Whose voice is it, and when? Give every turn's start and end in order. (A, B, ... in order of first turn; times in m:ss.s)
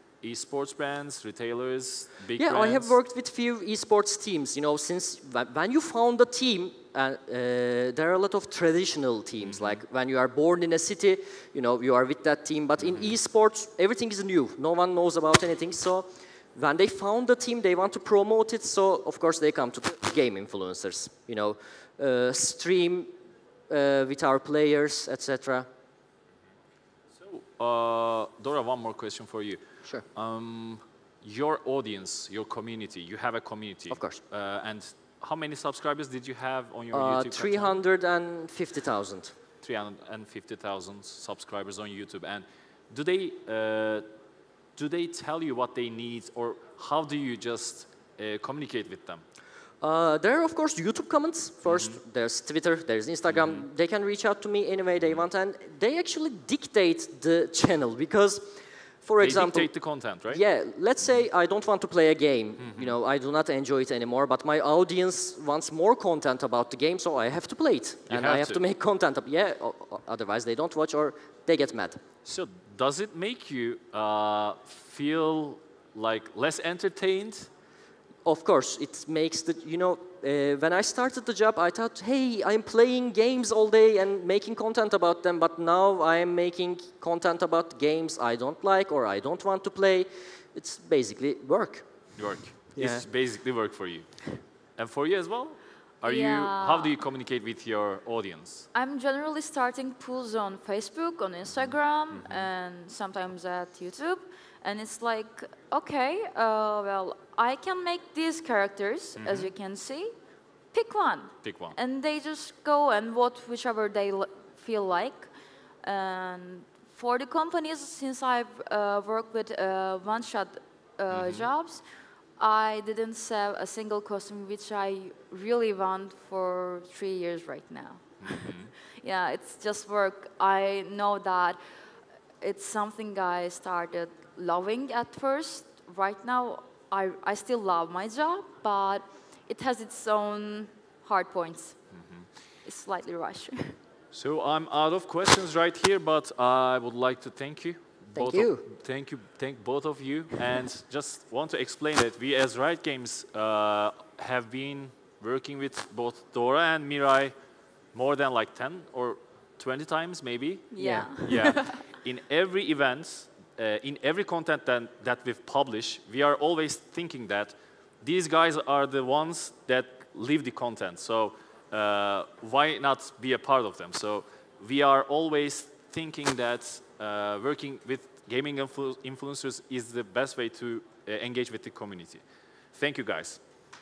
0:00.2-0:02.9 A
0:02.4-0:23.1 B
0:09.4-0:09.8 A
0:23.7-0:25.7 B
0:27.2-0:29.6 A
0:30.1-0:37.7 A
0:33.9-0:34.2 B
0:36.9-0:39.3 B
0:39.6-0:44.0 A
0:44.8-0:49.2 A
0:49.8-0:59.7 B
0:51.7-0:52.0 A
0:53.3-0:53.6 A
0:59.2-1:00.4 A
1:00.3-1:12.0 B
1:02.6-1:02.9 A
1:08.1-1:08.6 A
1:12.2-1:17.5 A
1:18.2-1:32.2 B
1:32.2-1:38.7 A
1:32.7-1:33.0 B
1:36.0-1:37.0 C
1:38.7-1:50.1 C
1:41.6-1:42.5 A
1:49.2-1:49.5 A
1:50.7-1:55.3 C
1:51.4-1:51.8 A
1:55.8-2:01.8 C
2:01.1-2:01.5 A
2:02.4-2:11.6 C
2:08.2-2:08.7 A
2:12.4-2:21.8 C
2:21.9-2:22.3 A
2:22.6-2:23.8 C
2:24.1-2:37.3 A
2:28.2-2:28.6 B
2:37.9-3:02.2 A
2:40.7-2:41.8 C
2:40.8-2:41.1 B
3:02.7-3:03.4 A